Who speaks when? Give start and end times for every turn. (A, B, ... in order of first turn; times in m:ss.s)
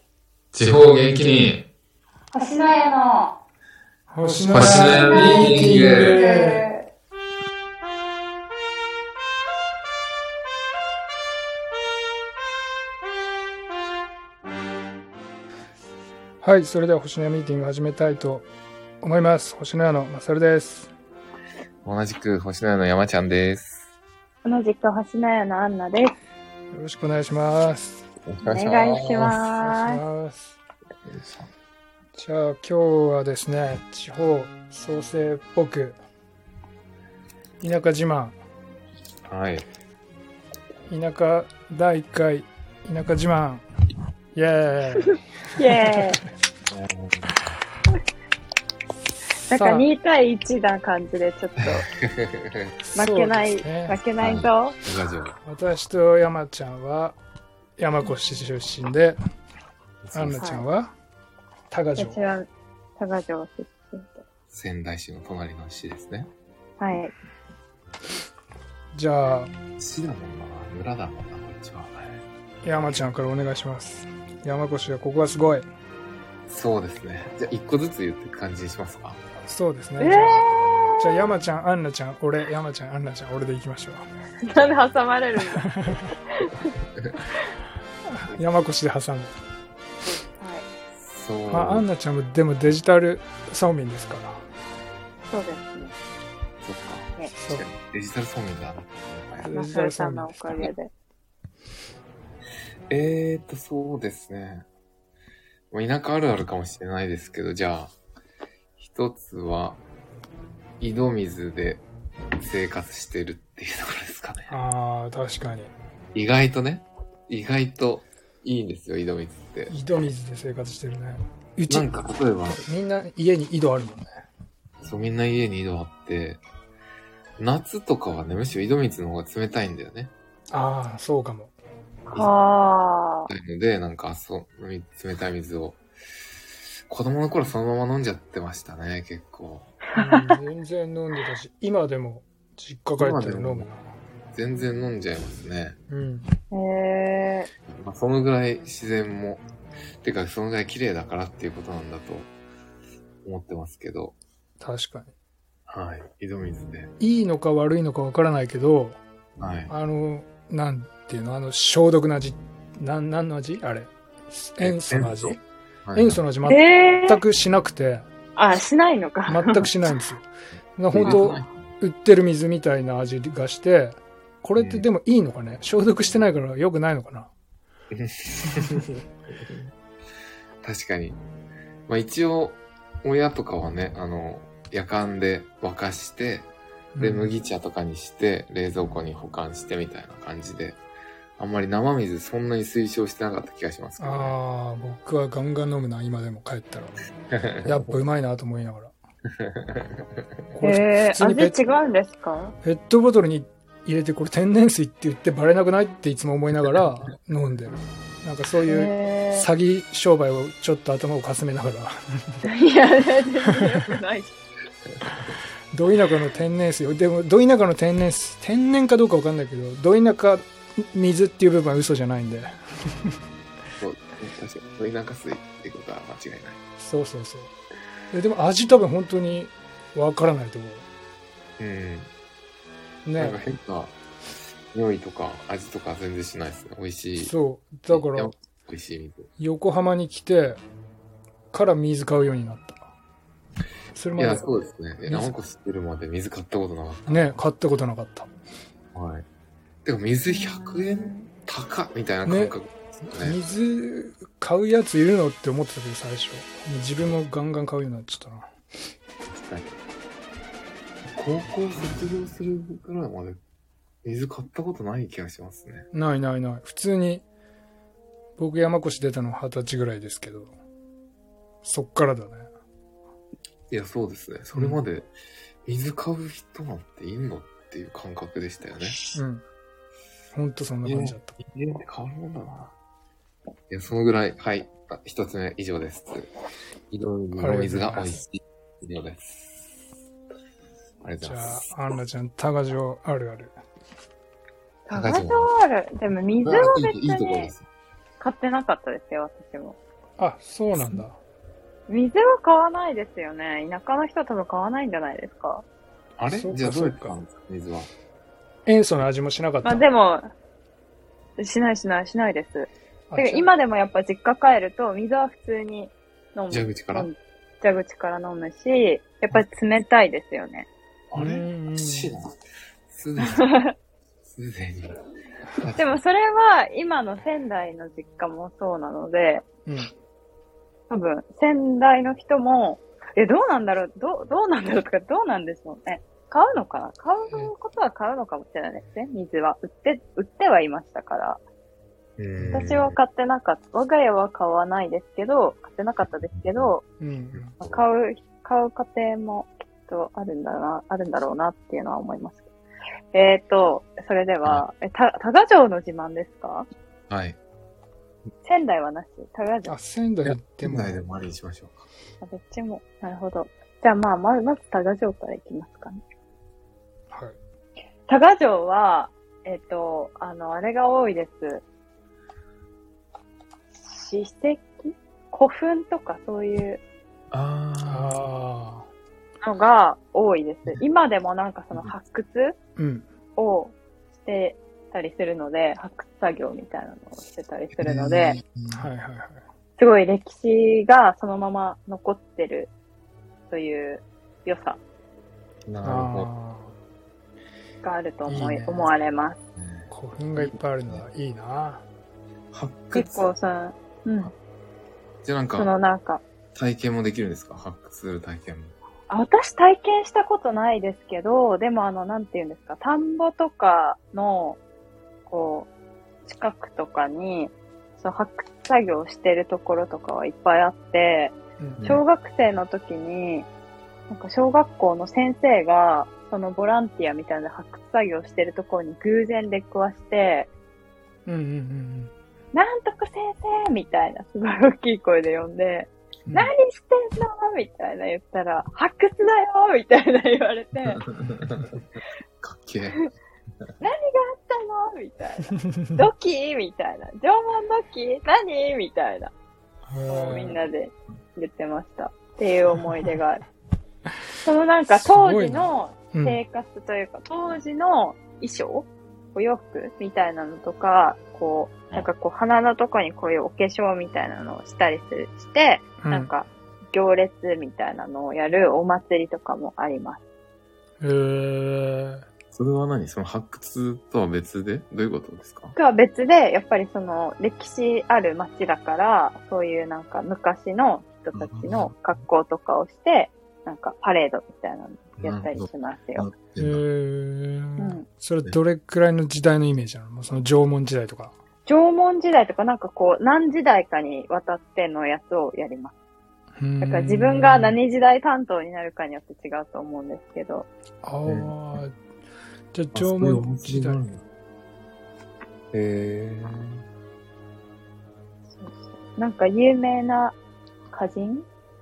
0:00.5-0:01.6 A
0:02.3-0:03.4 B
0:04.1-0:06.7 C
0:04.5-0:06.2 A
0:04.8-0:06.9 B
0:16.4-0:18.5 C
0:19.0-0:20.9 C
0:21.8-0:23.9 A
0:24.4-0:26.1 B
0:26.7-0:28.0 C
0:28.3-0:29.5 A
0:28.4-0:30.0 B
0:29.6-0:30.6 C
0:31.0-0:31.5 A
0:32.2-0:36.0 C
0:37.6-0:38.4 C
0:39.3-0:39.7 A
0:40.9-0:43.6 C
0:44.3-0:46.1 C
0:45.1-0:46.2 B
0:46.7-0:47.4 A
0:49.5-0:51.9 B
0:49.5-0:49.9 C
0:51.6-0:52.7 A
0:52.9-0:54.0 C
0:53.0-0:54.8 B
0:54.2-0:55.4 A
0:55.4-0:57.2 C
0:57.8-0:59.2 C
1:00.0-1:00.4 A
1:00.1-1:00.9 C
1:00.3-1:00.7 B
1:01.7-1:02.2 C
1:02.0-1:02.5 B
1:03.0-1:04.2 B
1:04.5-1:06.3 A
1:06.8-1:07.1 B
1:08.9-1:09.5 C
1:09.8-1:12.2 A
1:12.6-1:15.7 C
1:16.5-1:19.2 A
1:19.5-1:24.1 C
1:20.0-1:21.3 B
1:24.4-1:26.7 B
1:25.6-1:26.1 C
1:28.1-1:29.3 C
1:30.0-1:30.7 B
1:30.9-1:31.9 A
1:31.5-1:34.4 C
1:35.3-1:36.0 B
1:36.6-1:39.6 A
1:37.4-1:37.7 C
1:39.4-1:40.6 C
1:39.5-1:40.9 B
1:42.9-1:44.7 A
1:45.7-1:47.9 A
1:48.8-1:49.8 A
1:50.8-1:51.9 A
1:52.4-1:54.6 A
1:54.5-1:55.7 C
1:56.1-1:59.7 A
1:59.7-2:01.9 C
2:01.7-2:02.6 A
2:02.6-2:04.1 C
2:04.8-2:06.4 A
2:07.4-2:10.1 A
2:10.5-2:11.5 C
2:12.1-2:13.3 B
2:13.3-2:15.8 A
2:16.9-2:19.7 A
2:20.0-2:23.9 C
2:20.0-2:20.4 B
2:23.0-2:23.7 A
2:24.3-2:25.8 A
2:25.9-2:26.3 C
2:26.5-2:27.5 B
2:27.7-2:29.5 A
2:30.0-2:32.3 A
2:33.2-2:34.2 A
2:34.6-2:35.1 C
2:35.7-2:36.9 A
2:37.0-2:39.0 C
2:39.4-2:39.7 A
2:39.7-2:45.4 C
2:44.6-2:46.2 A
2:46.0-2:48.1 C
2:46.4-2:47.2 B
2:48.4-2:49.7 B
2:49.3-2:57.3 C
2:50.9-2:51.5 A
2:54.6-2:54.9 A
2:57.9-2:59.7 A
2:58.5-2:58.8 C
3:00.6-3:01.2 A
3:01.9-3:10.8 A
3:07.0-3:07.3 C
3:11.4-3:14.4 A
3:14.0-3:17.0 C
3:17.3-3:18.0 A
3:17.6-3:18.9 C
3:19.4-3:20.2 A
3:20.6-3:21.6 C
3:20.6-3:22.6 B
3:22.6-3:32.4 C
3:28.7-3:29.5 B
3:32.4-3:34.3 B
3:35.7-3:43.2 C
3:43.8-3:46.6 A
3:46.8-3:47.5 C
3:48.1-3:50.9 C
3:51.6-3:52.1 A
3:53.1-3:53.4 C
3:53.2-3:54.0 A
3:54.7-3:57.3 A
3:57.2-3:58.3 C
3:57.9-3:59.3 A
3:59.4-4:00.6 C
4:01.5-4:02.9 C
4:04.0-4:05.3 C
4:04.2-4:07.3 A
4:07.1-4:08.3 C
4:08.9-4:09.3 A
4:09.8-4:13.4 A
4:10.3-4:11.3 B
4:12.2-4:12.6 C
4:13.2-4:18.5 C
4:19.3-4:19.8 A
4:21.1-4:23.4 A
4:24.0-4:25.9 A
4:25.9-4:27.2 C
4:28.4-4:30.5 C
4:31.6-4:32.5 C
4:33.7-4:35.1 A
4:34.5-4:34.8 C
4:35.7-4:39.2 A
4:39.1-4:39.4 C
4:40.3-4:41.4 C
4:40.8-4:42.8 A
4:43.7-4:46.3 A
4:46.9-4:49.7 A
4:47.4-4:48.2 C
4:51.0-4:51.7 A
4:51.2-4:53.5 C
4:54.9-4:57.5 B
4:54.9-4:55.5 A
4:56.4-4:57.7 A
4:58.2-4:59.8 B
5:00.2-5:01.2 C
5:01.9-5:05.6 B
5:06.2-5:07.9 A
5:06.3-5:07.2 C
5:08.7-5:09.9 C
5:09.6-5:10.3 B
5:11.4-5:20.7 B
5:13.1-5:13.5 C
5:16.5-5:17.1 A
5:21.1-5:22.4 A
5:21.2-5:22.2 C
5:22.9-5:23.5 A
5:23.2-5:23.7 B
5:24.3-5:25.0 A
5:25.5-5:26.0 A
5:25.8-5:29.4 B
5:29.7-5:29.9 C
5:30.9-5:41.4 B
5:42.2-5:43.0 A
5:42.4-5:42.7 C
5:42.5-5:46.8 B
5:46.4-5:46.7 A
5:47.0-5:47.6 C
5:47.4-5:47.8 A
5:47.6-5:52.5 B
5:53.1-5:56.7 B
5:57.1-5:57.4 A
5:58.4-5:59.8 B
5:59.7-6:01.0 C
6:00.2-6:01.9 A
6:02.2-6:06.0 B
6:08.1-6:11.6 B
6:13.8-6:16.8 B
6:17.3-6:18.2 A
6:17.8-6:18.9 C
6:19.4-6:22.6 B
6:22.8-6:23.1 C
6:23.4-6:28.4 B
6:27.8-6:28.9 A
6:28.7-6:29.4 C
6:29.8-6:32.7 B
6:33.5-6:34.8 B
6:35.7-6:36.3 A
6:35.8-6:36.7 C
6:37.8-6:39.4 B
6:38.3-6:38.9 C
6:39.6-6:41.0 A
6:39.9-6:41.8 C
6:42.5-6:43.3 A
6:42.9-6:44.3 B
6:45.2-6:45.7 A
6:45.6-6:46.2 B
6:46.5-6:48.8 A
6:49.1-6:54.6 B
6:55.3-6:55.7 B
6:56.3-7:03.5 B
7:01.6-7:01.8 C
7:01.8-7:02.0 A
7:04.1-7:10.5 B
7:11.3-7:12.1 C
7:12.5-7:21.1 B
7:21.2-7:21.8 A
7:22.4-7:23.0 A
7:23.8-7:29.3 B
7:25.5-7:26.0 C
7:29.9-7:30.6 C
7:30.1-7:33.4 B
7:34.4-7:50.2 B
7:34.9-7:36.4 C
7:46.0-7:46.3 C
7:51.0-7:52.2 C
7:52.5-7:55.8 A
7:55.8-8:06.3 B
8:01.3-8:01.9 A
8:05.2-8:06.8 A
8:06.6-8:11.4 C
8:07.8-8:08.0 B
8:11.7-8:15.9 B
8:16.6-8:17.8 C
8:16.8-8:20.7 B
8:21.0-8:22.0 C
8:21.3-8:21.6 A
8:22.7-8:24.0 C
8:22.9-8:24.2 A
8:25.7-8:26.8 A
8:28.6-8:30.4 B
8:30.9-8:31.5 B